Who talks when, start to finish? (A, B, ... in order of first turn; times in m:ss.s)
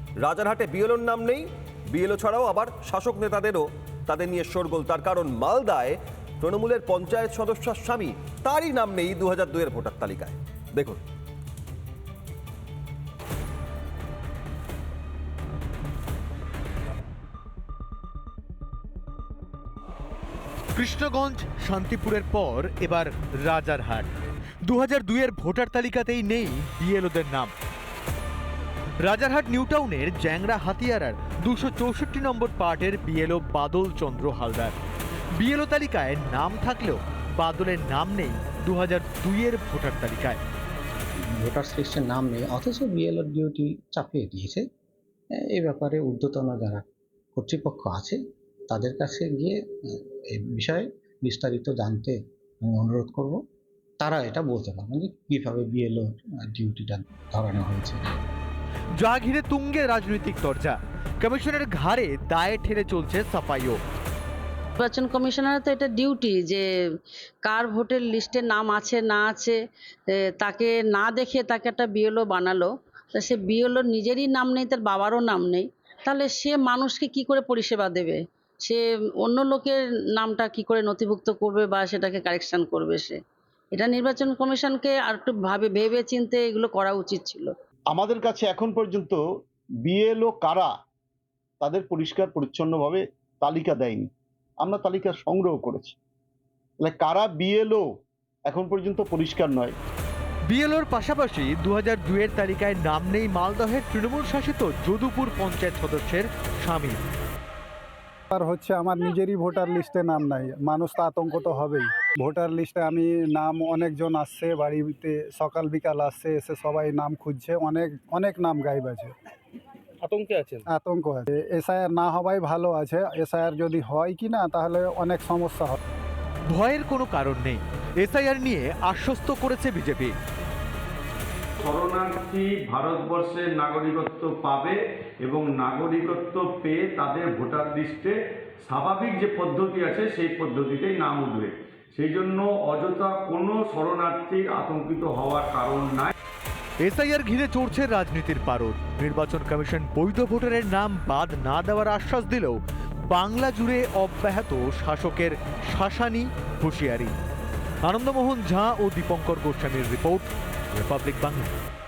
0:00.2-0:11.0 A
0:20.8-0:24.1 B
0:24.6-0:27.5 B
0:29.0-0:34.7 B
0:35.3-0:40.4 B
0:41.3-0:44.6 C
0:45.3-0:53.4 C
0:54.0-0:58.2 C
0:59.0-1:03.8 B
1:04.8-1:06.6 D
1:07.4-1:09.6 D
1:10.1-1:23.2 D
1:23.7-1:27.5 D
1:27.9-1:29.2 E
1:29.8-1:30.7 E
1:31.6-1:34.1 E
1:34.6-1:36.0 E
1:36.8-1:37.8 E
1:38.5-1:39.7 E
1:40.5-1:47.0 B
1:48.3-1:59.1 F
2:00.7-2:05.8 F
2:06.5-2:10.1 B
2:11.6-2:26.1 G
2:26.8-2:37.1 B
2:37.8-2:41.5 B